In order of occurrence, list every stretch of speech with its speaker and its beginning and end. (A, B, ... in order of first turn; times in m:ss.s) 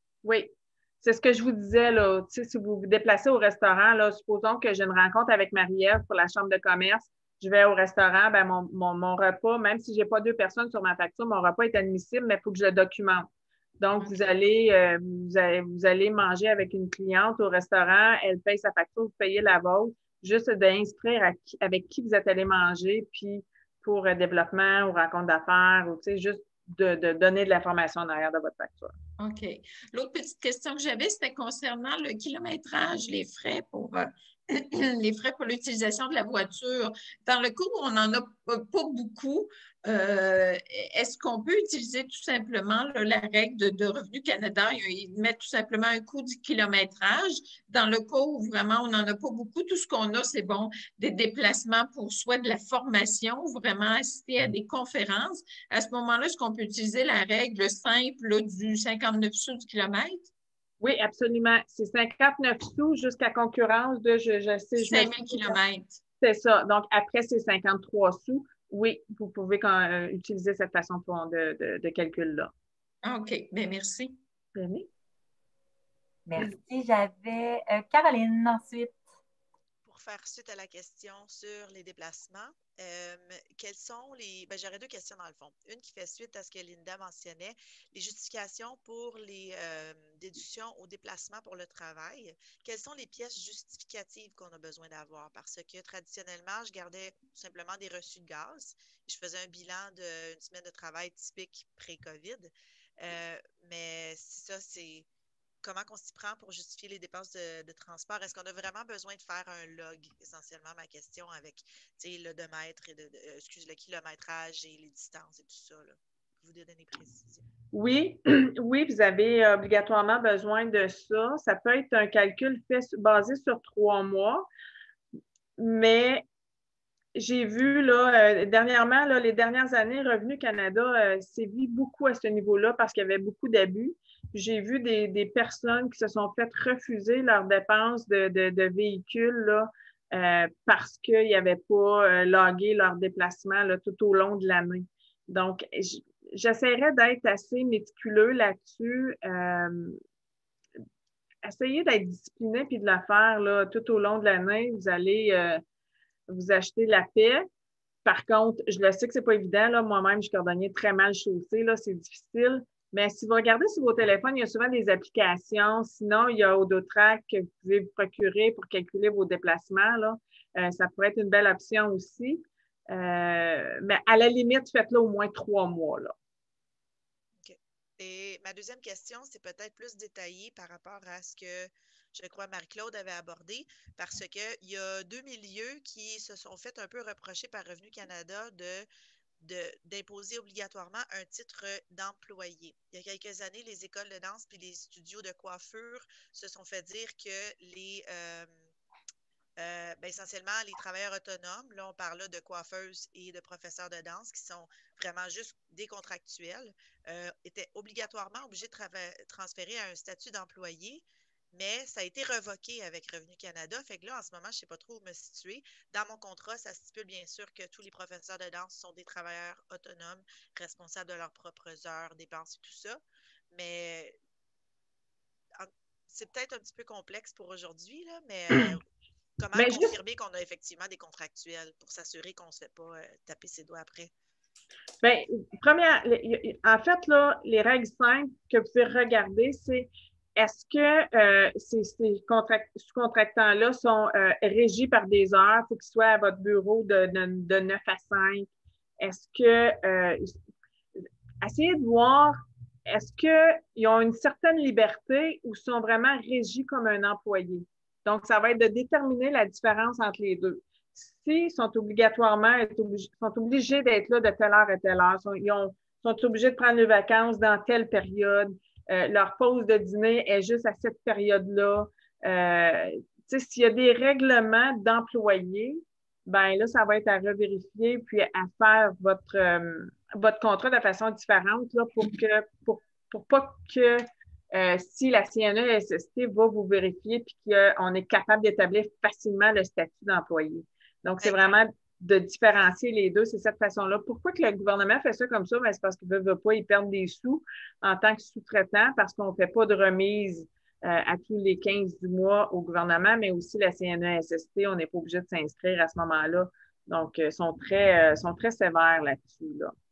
0:00.2-0:28.9 A
0:29.2-1:00.3 B
1:00.8-1:05.6 A
1:04.8-1:06.0 B
1:06.2-1:12.5 A
1:13.0-1:14.2 B
1:14.5-1:14.9 A
1:16.3-1:19.0 C
1:19.8-1:45.1 D
1:45.6-1:57.4 D
1:57.7-2:04.5 A
2:05.6-2:06.2 A
2:07.1-2:30.0 A
2:31.4-2:35.6 A
2:36.3-2:37.5 A
2:38.0-2:56.1 A
2:57.4-3:08.9 D
3:09.4-3:18.5 D
3:19.6-3:43.0 D
3:43.5-3:44.2 D
3:45.6-3:48.8 D
3:49.4-3:54.1 D
3:49.6-3:49.9 A
3:55.0-4:08.5 A
4:09.0-4:10.4 A
4:11.4-5:09.7 A